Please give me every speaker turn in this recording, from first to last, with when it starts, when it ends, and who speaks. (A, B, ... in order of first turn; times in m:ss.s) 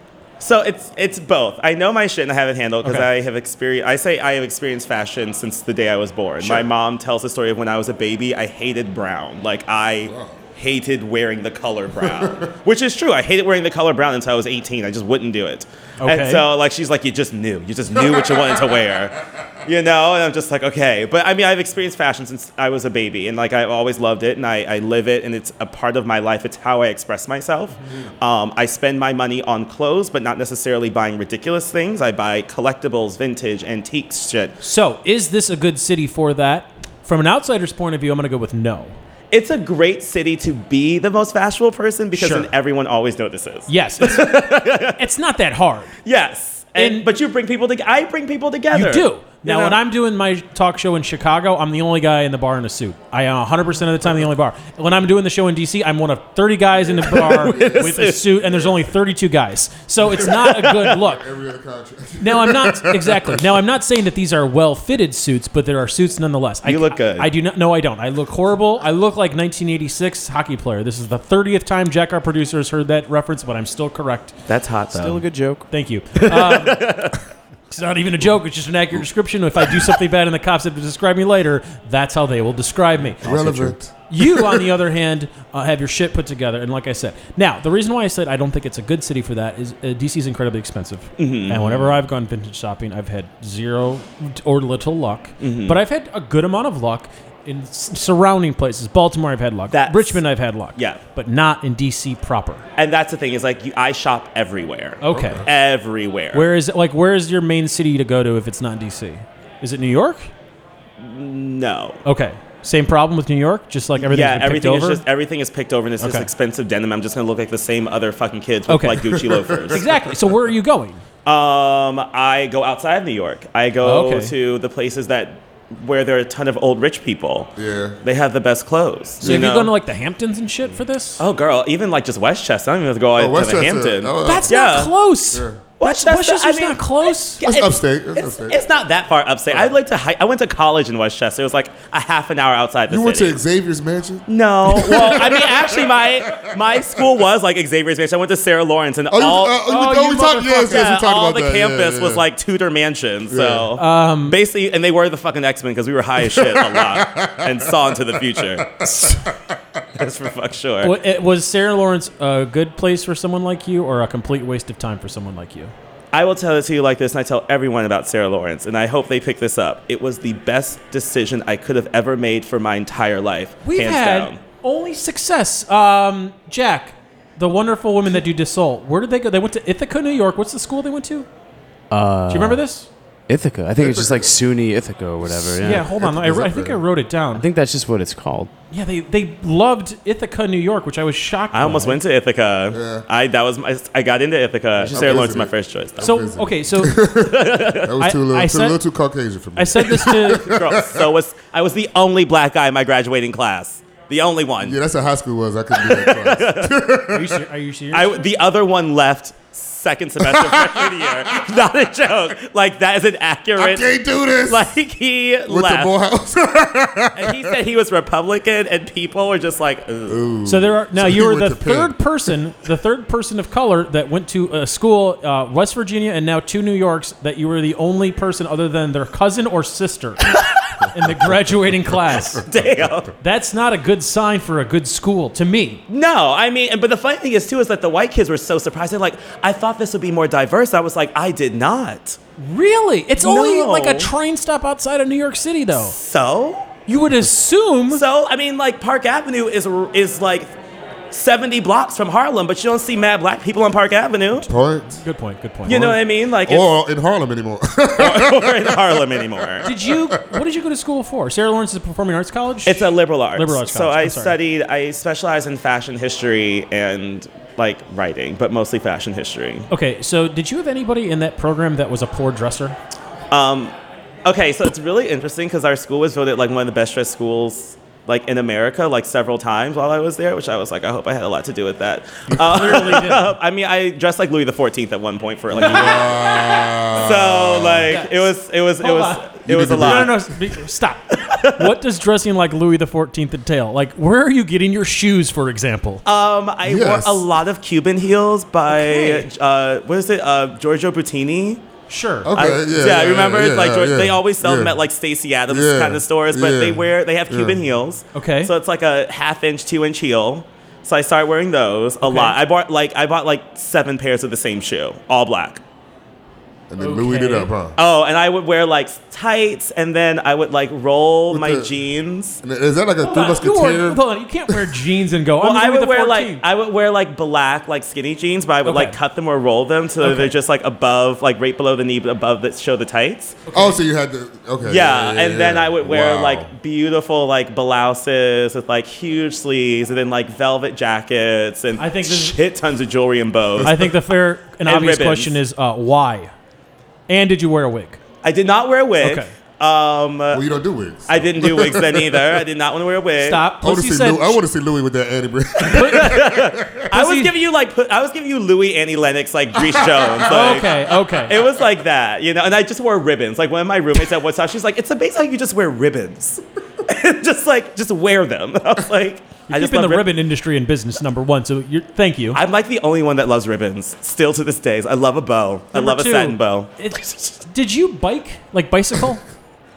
0:00.4-0:34.6 A
0:06.4-0:06.6 B
0:10.1-0:10.4 B
0:12.0-0:12.5 B
0:16.0-0:16.4 C
0:18.0-0:18.5 B
0:34.6-0:39.0 C
0:39.3-0:45.0 A
0:42.1-0:42.5 C
0:43.7-0:45.9 C
0:46.0-0:49.8 A
0:46.8-0:47.1 C
0:48.7-1:01.2 C
0:56.7-0:58.7 B
0:57.1-0:58.3 A
1:00.0-1:03.4 B
1:02.2-1:14.4 C
1:06.6-1:07.3 A
1:14.5-1:15.2 A
1:14.9-1:15.7 D
1:15.7-1:16.9 C
1:16.2-1:17.2 A
1:17.7-1:42.6 C
1:23.2-1:24.3 B
1:23.2-1:23.6 D
1:31.2-1:31.9 A
1:35.4-1:35.8 A
1:39.7-1:40.2 A
1:40.7-1:41.0 A
1:42.8-1:46.5 A
1:45.0-1:45.4 C
1:45.1-1:45.4 B
1:46.3-1:50.3 C
1:51.0-1:52.0 A
1:52.0-1:55.0 C
1:54.0-1:59.9 A
1:56.0-1:56.3 C
1:58.7-2:01.0 C
1:59.1-1:59.8 B
2:01.2-2:09.7 A
2:03.8-2:04.3 C
2:07.6-2:08.0 B
2:09.2-2:09.5 B
2:09.2-2:11.2 C
2:11.2-2:14.9 A
2:13.2-2:14.6 B
2:14.2-2:17.4 C
2:15.3-2:15.6 B
2:15.8-2:23.4 A
2:17.4-2:18.6 B
2:22.9-2:27.0 B
2:24.3-2:29.6 A
2:29.1-2:32.2 B
2:29.6-2:30.8 C
2:30.5-2:38.8 A
2:33.3-2:33.7 B
2:33.8-2:34.4 C
2:36.2-2:39.8 B
2:40.0-2:41.0 A
2:40.8-2:45.7 C
2:46.1-2:54.4 A
2:53.6-3:01.3 C
3:01.9-3:02.6 D
3:02.3-3:02.9 C
3:03.3-3:05.9 D
3:03.7-3:04.4 B
3:05.2-3:06.8 B
3:05.6-3:07.4 C
3:07.3-3:08.5 D
3:08.7-3:12.0 C
3:11.5-3:16.0 A
3:12.7-3:13.0 B
3:14.8-3:15.4 D
3:14.8-3:21.0 B
3:16.0-3:17.0 C
3:17.1-3:17.9 A
3:18.0-3:18.8 C
3:19.6-3:20.5 C
3:19.9-3:24.8 A
3:24.6-3:27.4 B
3:25.7-3:26.8 A
3:27.1-3:28.2 C
3:27.9-3:35.9 A
3:30.2-3:31.5 B
3:33.6-3:34.7 B
3:35.5-3:37.6 B
3:37.1-3:40.2 A
3:40.1-3:42.0 B
3:40.4-3:52.4 C
3:52.4-3:53.1 A
3:53.2-3:55.8 C
3:55.9-4:02.2 A
4:02.4-4:05.9 C
4:03.2-4:04.1 A
4:05.7-4:06.7 A
4:06.9-4:08.0 C
4:07.9-4:10.5 A
4:11.1-4:14.5 A
4:14.4-4:15.0 B
4:14.9-4:15.9 C
4:15.6-4:16.7 A
4:15.7-4:20.4 B
4:18.0-4:19.7 A
4:19.6-4:24.3 C
4:22.6-4:29.7 A
4:29.7-4:32.8 C
4:33.3-4:33.7 A
4:34.2-4:50.2 A
4:42.3-4:43.3 C
4:45.5-4:47.9 B
4:45.6-4:46.0 C
4:47.9-4:56.0 C
4:49.5-4:50.2 B
4:51.2-4:51.7 A
4:56.0-5:01.6 A
4:56.6-4:57.2 B
4:58.7-4:59.3 C
5:01.9-5:02.3 C
5:02.2-5:04.8 B
5:02.3-5:15.6 A
5:05.5-5:07.6 B
5:08.1-5:08.5 C
5:12.0-5:12.4 C
5:16.7-5:17.8 B
5:16.8-5:17.5 C
5:17.8-5:22.4 A
5:21.3-5:21.7 B
5:22.4-5:24.7 B
5:23.0-5:26.4 C
5:25.4-5:33.4 A
5:28.6-5:29.0 C
5:30.0-5:30.3 C
5:33.4-5:33.8 C
5:33.5-5:36.5 B
5:34.6-5:43.9 A
5:41.8-5:42.4 C
5:43.6-5:46.3 C
5:44.6-5:45.3 A
5:47.1-5:48.0 C
5:48.2-5:50.4 A
5:49.0-5:49.3 C
5:50.3-5:52.4 B
5:51.1-5:53.4 A
5:53.2-5:54.4 C
5:53.6-5:56.9 B
5:55.6-6:10.1 A
5:55.6-5:56.2 C
5:56.9-5:57.3 C
5:59.6-6:00.2 B
6:00.2-6:01.4 C
6:09.5-6:12.4 C
6:12.3-6:16.7 A
6:15.7-6:19.2 C